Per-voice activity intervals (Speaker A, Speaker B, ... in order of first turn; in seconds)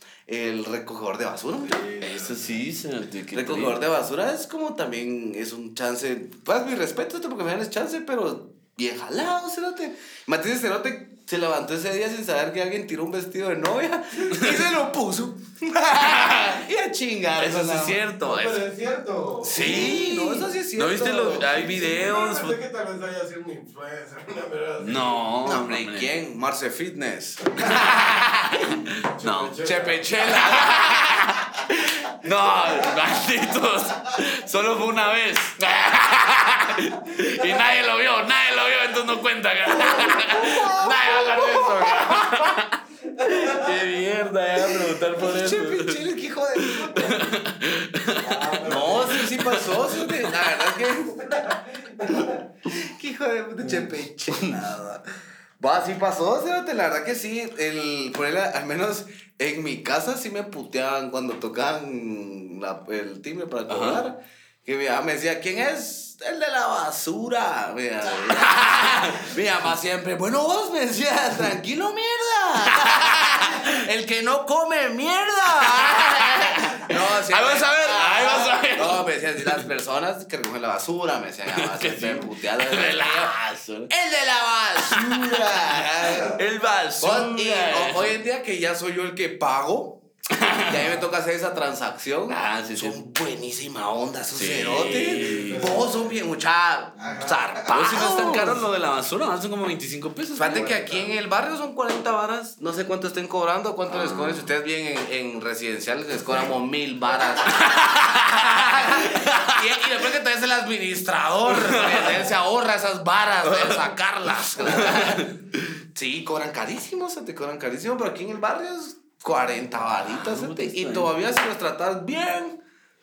Speaker A: 0.3-2.0, 3.3-18.0, 19.4-21.6, 25.4-28.1, 29.6-31.2, 39.9-42.4, 45.1-47.3, 48.6-55.0, 55.6-83.3, 83.9-86.4, 87.0-90.0, 90.6-98.6, 100.3-115.3, 115.9-122.6
Speaker B: 1.6-2.6, 18.2-20.0, 21.4-25.3, 29.1-30.1, 48.2-49.3, 51.2-52.3, 94.9-96.1, 97.0-97.7, 100.5-101.1
Speaker C: 2.0-3.8, 14.3-14.6, 15.9-16.6, 17.4-18.6, 19.4-22.6, 24.8-26.1, 27.6-29.6, 30.2-46.0, 46.5-50.4, 54.3-54.5, 63.7-64.0, 68.2-69.3, 72.8-73.7, 75.6-79.6, 81.5-83.9, 84.8-88.1, 90.3-90.9, 92.3-93.0, 94.3-95.8, 97.7-100.7, 103.9-104.5, 107.5-109.7, 111.5-112.3, 113.4-115.7, 120.0-121.1